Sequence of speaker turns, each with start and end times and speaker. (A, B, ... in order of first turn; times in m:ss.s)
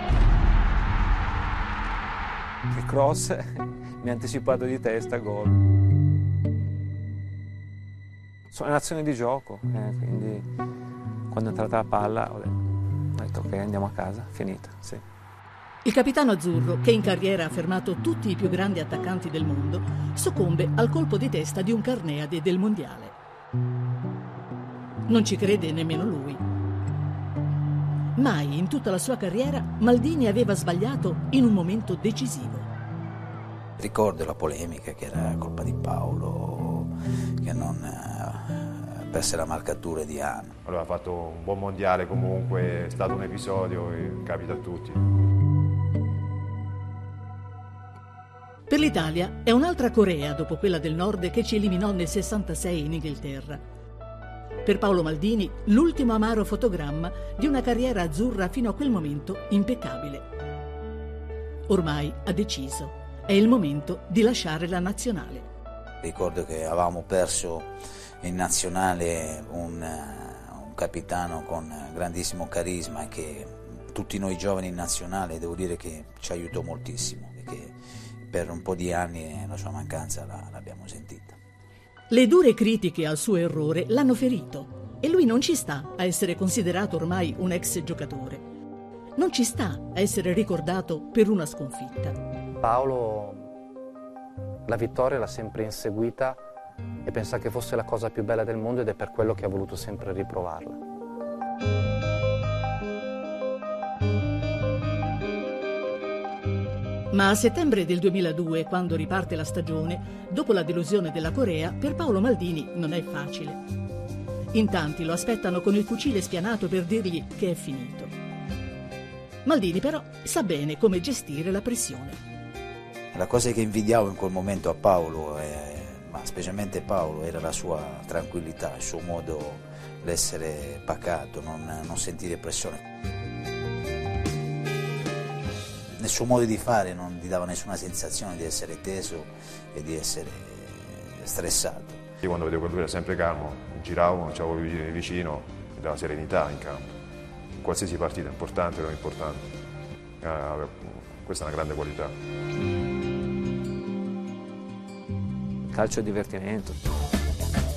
0:02.7-0:05.6 A
0:08.5-0:10.5 A
0:11.3-0:12.6 A
0:13.1-0:15.0 A
0:15.8-0:23.2 B
0:25.1-0:26.4 B
0:28.2-0:32.7 B
0:33.8-0:36.9 C
0:37.4-0:40.5 C
0:40.6-0:45.0 D
0:48.7-0:53.6 B
0:54.6-1:00.2 B
1:01.7-1:05.5 B
1:06.0-1:21.4 C
1:22.1-1:28.4 B
1:29.2-1:32.2 B
1:32.6-1:33.5 E
1:34.7-1:36.4 E
1:37.0-1:40.8 E
1:47.1-1:53.6 B
1:54.5-1:58.1 B
1:59.4-2:02.2 B
2:03.1-2:12.8 C
2:16.0-2:22.0 C
2:22.2-2:27.0 D
2:27.5-2:29.5 D
2:30.2-2:32.1 D
2:35.7-2:36.8 A